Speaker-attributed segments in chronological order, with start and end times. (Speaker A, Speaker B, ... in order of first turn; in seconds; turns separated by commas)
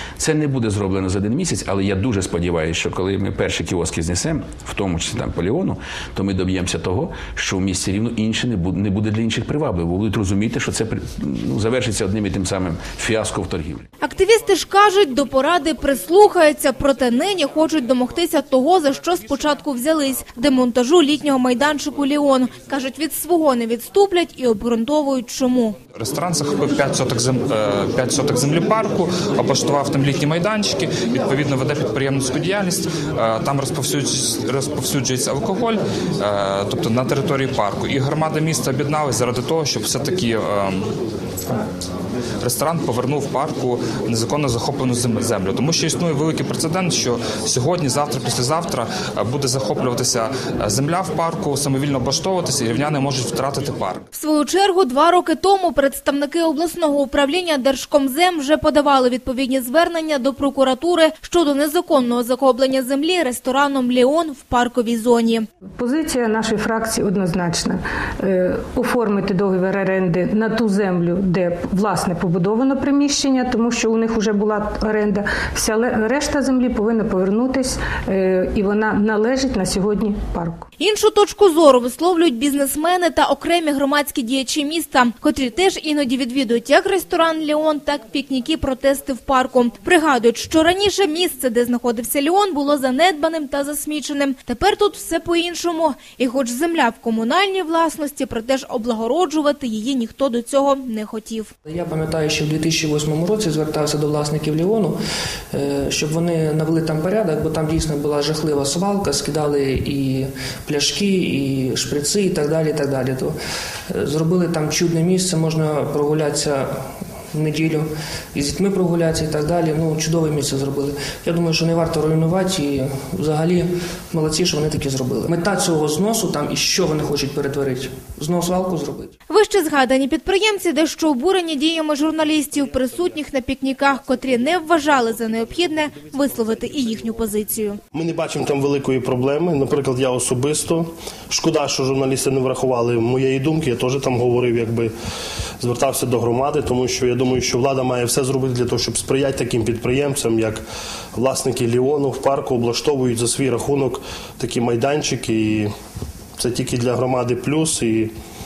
Speaker A: 0.2-13.8, Speaker B: 14.0-25.8, Speaker C: 26.0-40.9, Speaker C: 42.4-54.0, Speaker B: 54.1-65.5, Speaker D: 65.8-80.6, Speaker B: 80.8-101.5, Speaker E: 101.7-105.0, Speaker E: 105.5-113.3, Speaker E: 113.9-116.7, Speaker E: 117.3-129.1, Speaker B: 129.3-137.8, Speaker F: 137.9-144.9, Speaker F: 145.6-150.6, Speaker F: 151.2-155.7, Speaker F: 156.4-158.1